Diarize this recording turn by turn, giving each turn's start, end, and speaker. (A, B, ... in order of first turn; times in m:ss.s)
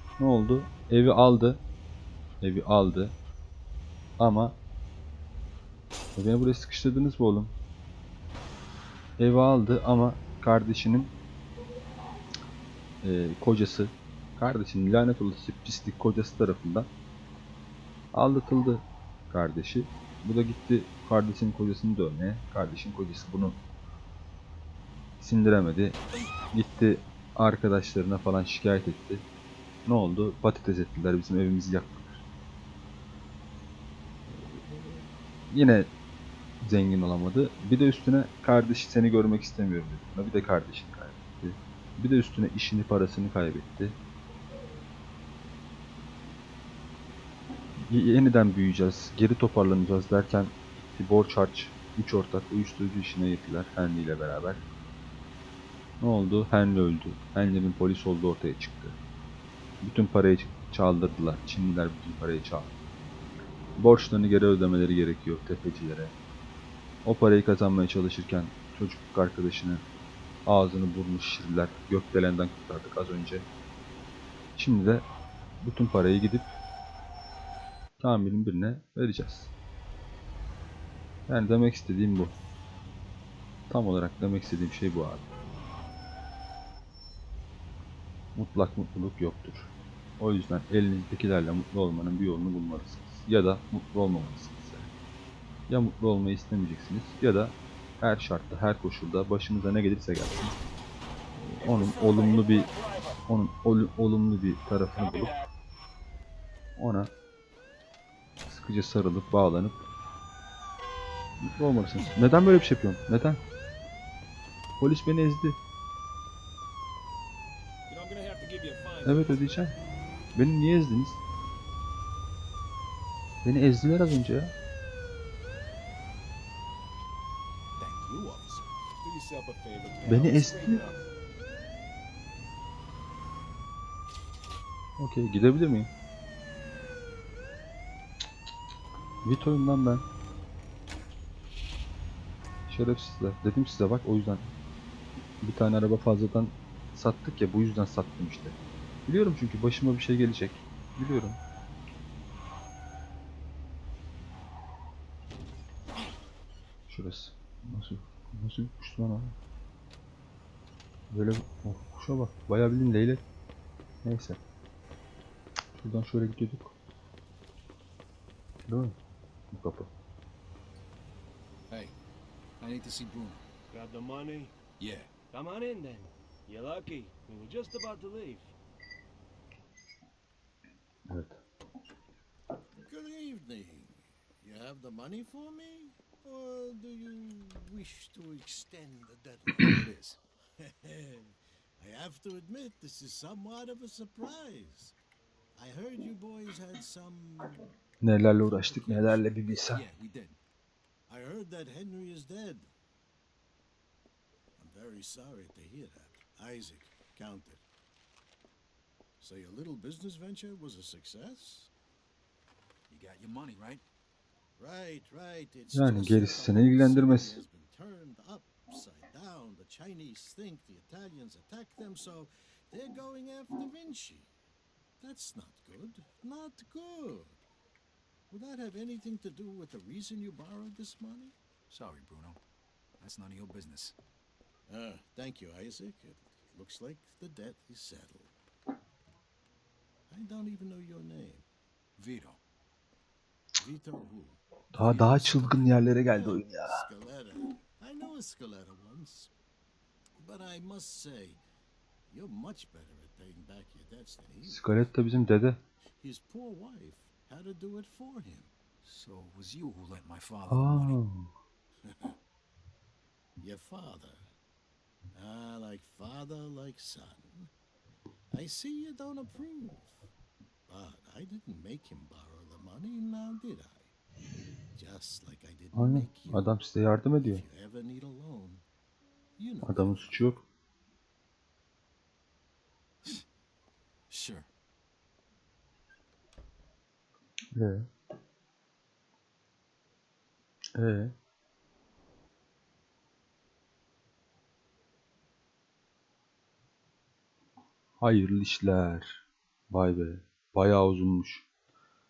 0:00.2-0:01.6 A
0:02.4-0:03.1 A
0:04.2-0:04.6 A
0:06.2-0:07.5 A
0:09.2-0:11.1 A
0:13.0-0:16.9 A
0:18.1-0:23.6 A
0:25.2-0:26.0 A
0:26.5-0:29.2 A
0:29.8-0:32.2 A
0:35.5-0:35.9 A
0:36.6-0:44.0 A
0:47.9-0:54.6 A
0:56.0-0:59.0 A
0:59.8-1:02.7 A
1:03.8-1:06.1 A
1:07.0-1:09.8 A
1:10.4-1:13.5 A
1:14.6-1:15.1 A
1:15.6-1:16.6 A
1:18.0-1:19.5 A
1:21.3-1:22.3 A
1:23.7-1:25.3 A
1:28.3-1:34.9 A
1:35.7-1:40.6 A
1:41.5-1:42.7 A
1:43.3-1:45.4 A
1:46.8-1:47.1 A
1:48.5-1:49.8 A
1:51.4-1:53.4 A
1:54.8-1:55.6 A
1:57.9-1:59.4 B
1:59.0-1:59.8 A
2:00.3-2:01.2 A
2:03.4-2:04.5 A
2:07.8-2:08.7 C
2:09.2-2:11.0 B
2:10.0-2:10.8 A
2:15.0-2:15.9 A
2:19.2-2:20.0 A
2:22.7-2:24.4 A
2:25.4-2:31.4 A
2:36.9-2:39.3 A
2:41.1-2:43.2 A
2:44.0-2:44.4 A
2:45.8-2:46.8 A
2:48.7-2:49.0 A
2:49.5-2:49.9 A
2:51.7-2:51.9 C
2:52.6-2:53.4 C
2:53.7-2:54.5 B
2:54.8-2:55.2 C
2:55.3-2:58.5 B
3:01.1-3:01.4 A
3:02.8-3:09.8 D
3:09.7-3:10.2 C
3:10.6-3:15.0 D
3:15.6-3:17.7 D
3:18.0-3:19.8 A
3:18.6-3:20.4 C
3:21.1-3:22.7 D
3:24.6-3:27.6 D
3:29.2-3:31.7 D
3:32.9-3:33.8 C
3:34.6-3:44.3 D
3:35.7-3:37.4 A
3:45.0-3:47.4 D
3:48.3-3:51.3 D
3:51.7-3:52.4 C
3:53.0-3:54.0 C
3:54.7-3:58.3 D
4:00.1-4:01.4 D
4:02.0-4:02.4 C
4:03.6-4:04.4 D
4:04.7-4:06.8 A
4:04.8-4:05.7 C
4:06.0-4:09.3 D
4:10.2-4:11.4 D
4:12.1-4:14.7 D
4:14.4-4:15.6 A
4:16.0-4:18.5 D
4:18.8-4:21.0 C
4:20.5-4:21.3 A
4:21.8-4:22.1 D
4:23.4-4:24.2 D
4:25.1-4:27.5 D
4:28.3-4:30.0 D
4:30.7-4:33.9 D
4:34.7-4:36.5 D
4:35.8-4:37.4 A
4:37.2-4:38.6 D
4:39.4-4:40.3 D
4:39.6-4:40.4 A
4:44.1-4:44.5 C
4:47.5-4:47.9 A
4:50.8-4:51.1 A
4:58.0-5:01.4 A